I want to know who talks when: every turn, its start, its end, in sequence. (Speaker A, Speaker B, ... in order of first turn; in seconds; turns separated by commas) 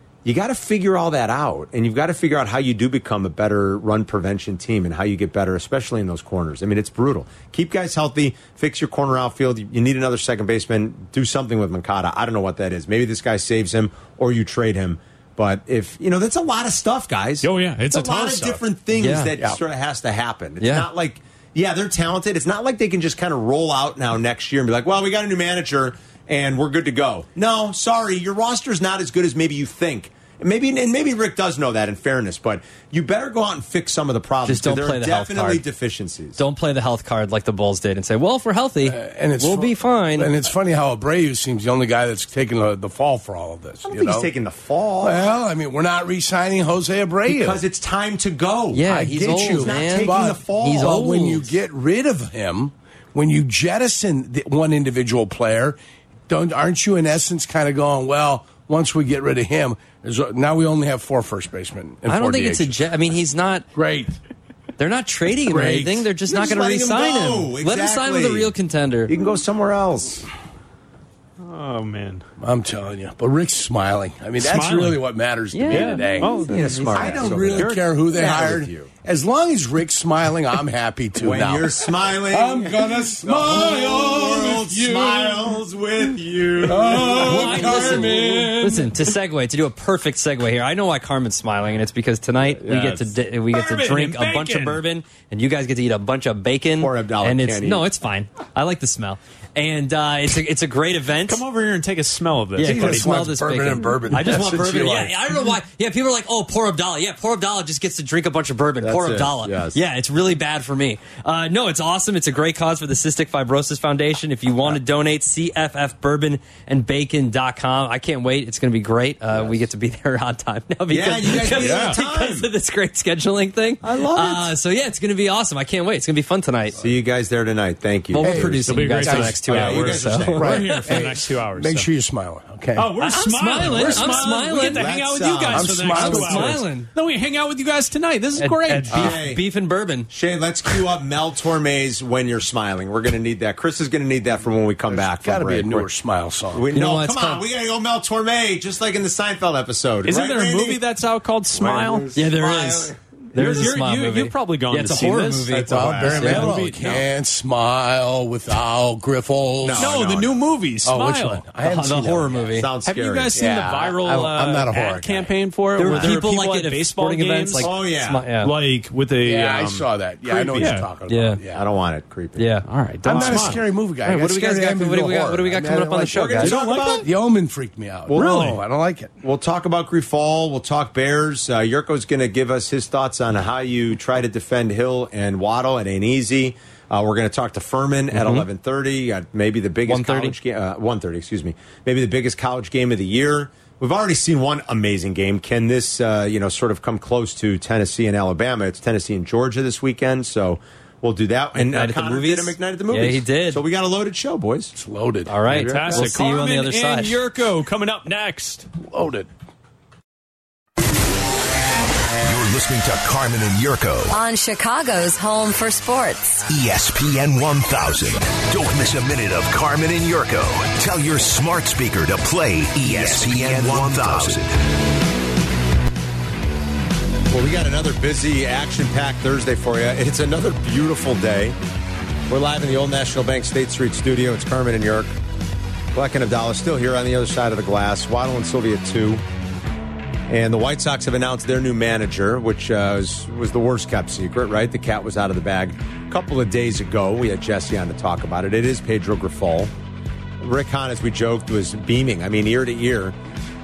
Speaker A: 0.2-36.4, Speaker B: 17.4-18.6, Speaker C: 18.9-19.3, Speaker C: 20.6-20.9, Speaker C: 34.4-35.6, Speaker C: 36.4-40.3, Speaker D: 38.8-44.3, Speaker A: 43.8-45.3, Speaker D: 45.0-47.6, Speaker A: 47.3-51.1, Speaker C: 48.7-51.5, Speaker D: 48.8-62.8, Speaker C: 62.1-63.6, Speaker D: 63.7-64.2, Speaker C: 64.8-69.1, Speaker D: 65.5-66.1, Speaker A: 66.3-68.5, Speaker A: 69.1-70.3, Speaker B: 71.4-72.2, Speaker D: 72.4-85.6, Speaker B: 74.4-75.0, Speaker C: 75.5-77.2, Speaker B: 75.7-77.8, Speaker A: 76.5-78.9, Speaker A: 81.2-88.0, Speaker D: 86.6-89.1, Speaker B: 87.1-88.5, Speaker C: 87.2-101.4, Speaker A: 92.5-93.1, Speaker B: 93.5-94.8, Speaker A: 96.8-97.9, Speaker B: 101.3-103.1, Speaker C: 102.6-126.8, Speaker D: 102.6-105.1, Speaker A: 104.1-105.2, Speaker A: 108.8-109.8, Speaker A: 120.9-122.5, Speaker B: 121.3-122.0, Speaker A: 123.8-124.5, Speaker A: 126.8-128.6, Speaker C: 128.1-131.0, Speaker D: 128.2-129.5, Speaker B: 128.7-131.9, Speaker A: 129.4-130.6, Speaker D: 130.3-132.9, Speaker B: 132.7-139.1, Speaker C: 133.0-134.9, Speaker D: 133.5-134.6, Speaker A: 134.6-135.8, Speaker D: 135.5-136.6, Speaker C: 135.8-136.9, Speaker C: 138.4-140.1, Speaker A: 138.9-139.5, Speaker D: 138.9-139.2, Speaker A: 140.1-145.9, Speaker D: 144.9-146.7, Speaker A: 146.5-150.8, Speaker C: 146.7-147.4, Speaker B: 150.0-152.1, Speaker A: 151.5-153.4, Speaker C: 152.1-156.5, Speaker B: 153.3-155.5, Speaker A: 155.5-156.6, Speaker D: 155.6-160.0, Speaker B: 156.0-157.1, Speaker A: 159.6-160.3, Speaker B: 159.8-161.4, Speaker D: 160.8-162.6, Speaker C: 161.6-162.7, Speaker A: 162.6-163.4, Speaker B: 162.8-167.7, Speaker D: 163.3-165.3, Speaker C: 165.8-168.5, Speaker A: 167.6-168.2, Speaker B: 168.4-169.9, Speaker D: 169.2-171.6, Speaker A: 170.2-170.7, Speaker B: 170.6-170.9, Speaker C: 171.1-171.4, Speaker A: 171.5-172.5, Speaker C: 172.4-172.6, Speaker B: 172.7-173.6, Speaker D: 173.0-179.1, Speaker A: 173.1-173.5, Speaker C: 174.0-176.6, Speaker A: 176.1-177.1, Speaker B: 176.4-177.1, Speaker A: 178.1-178.6, Speaker B: 178.2-178.6, Speaker A: 179.2-204.7, Speaker C: 188.1-188.5, Speaker C: 189.9-190.3, Speaker C: 201.6-203.6, Speaker D: 204.7-205.7, Speaker C: 205.3-207.2, Speaker A: 205.5-206.1, Speaker B: 205.5-208.7, Speaker D: 208.8-209.3, Speaker E: 212.2-214.2, Speaker F: 214.1-216.4, Speaker E: 216.5-224.6, Speaker A: 222.8-224.4, Speaker A: 227.3-231.6, Speaker A: 232.3-235.1, Speaker A: 235.9-239.2, Speaker A: 240.3-249.7, Speaker A: 250.4-253.1